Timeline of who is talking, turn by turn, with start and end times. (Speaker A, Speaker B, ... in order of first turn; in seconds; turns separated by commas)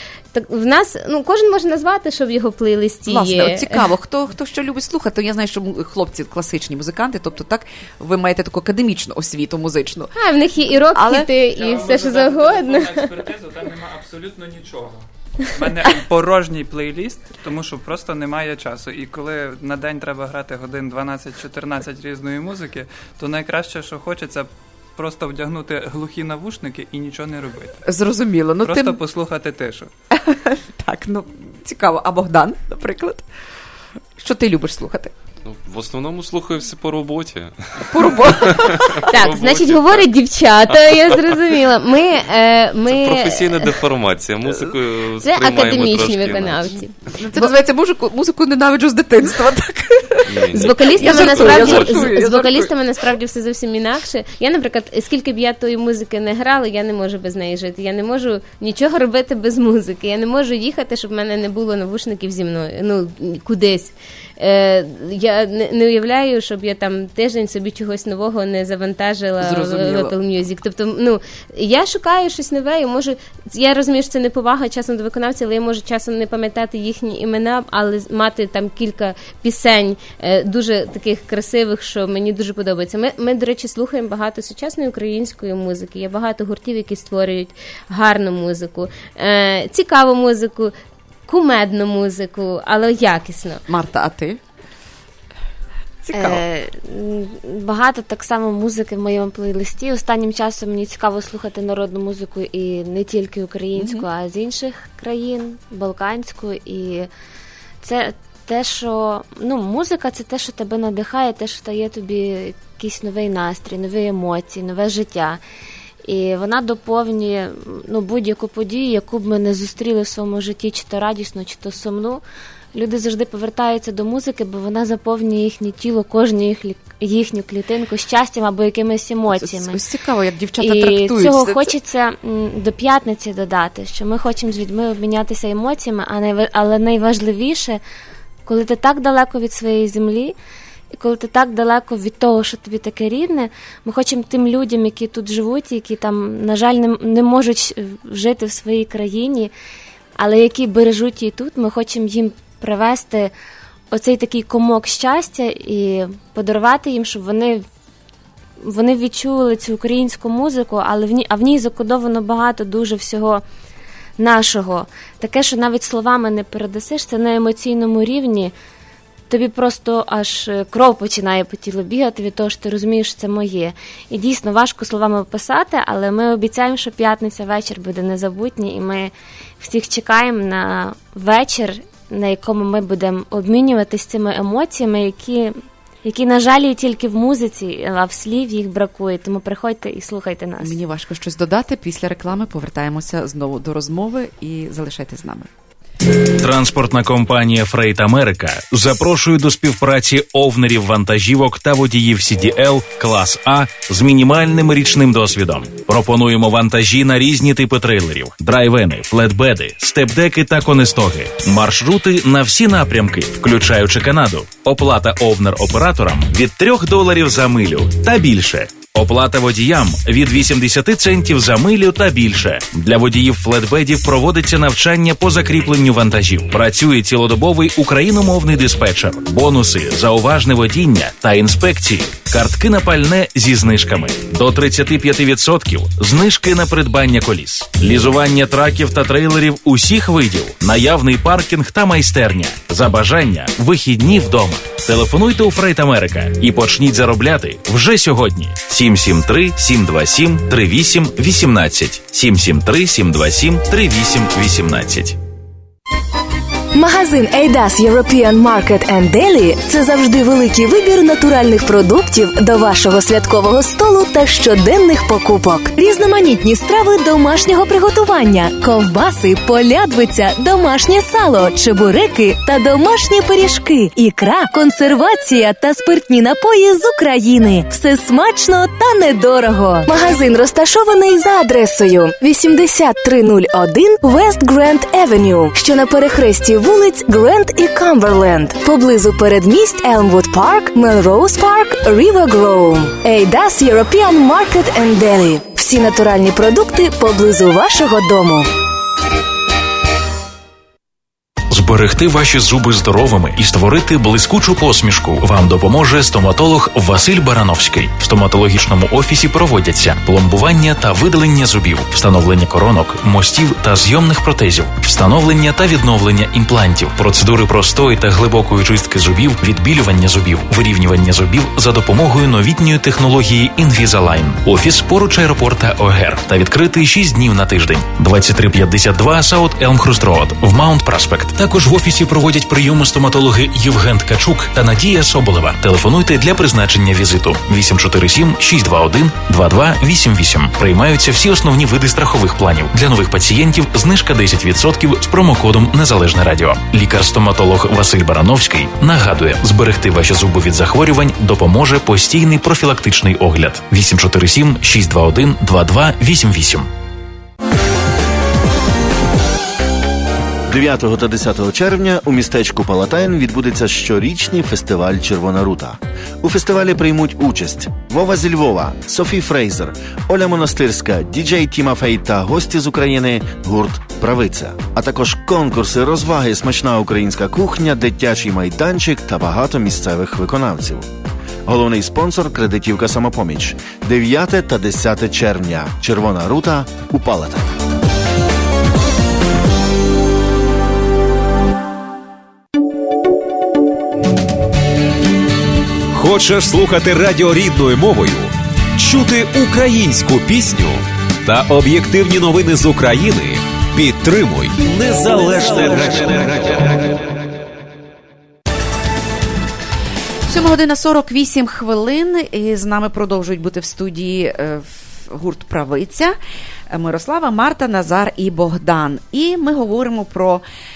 Speaker A: 0.3-3.9, Speaker B: 3.1-10.1, Speaker A: 10.2-13.2, Speaker B: 10.9-11.3, Speaker C: 11.4-27.8, Speaker B: 27.9-29.0, Speaker C: 28.6-29.9, Speaker B: 30.1-33.2, Speaker B: 34.2-35.1, Speaker D: 35.5-40.1, Speaker B: 37.9-39.0, Speaker A: 39.0-43.7, Speaker D: 42.9-46.7, Speaker A: 45.2-47.4, Speaker B: 47.2-52.7, Speaker D: 50.3-52.1, Speaker A: 50.5-90.7, Speaker B: 69.4-70.2, Speaker A: 91.3-93.6, Speaker B: 93.7-94.4, Speaker B: 96.0-96.5, Speaker E: 96.1-107.1, Speaker B: 103.7-104.0, Speaker E: 107.8-115.4, Speaker E: 116.0-129.8, Speaker B: 129.3-131.7, Speaker E: 130.6-137.8, Speaker E: 138.4-140.4, Speaker E: 140.9-149.5, Speaker E: 150.2-153.3, Speaker E: 153.9-157.6, Speaker E: 158.6-163.4, Speaker E: 164.2-168.5, Speaker E: 169.3-190.7, Speaker B: 190.6-195.5, Speaker F: 196.4-255.2, Speaker G: 256.7-298.5, Speaker F: 301.5-356.7, Speaker H: 360.5-380.9, Speaker H: 381.5-387.5, Speaker I: 395.9-406.6, Speaker B: 410.3-416.2, Speaker B: 416.7-420.4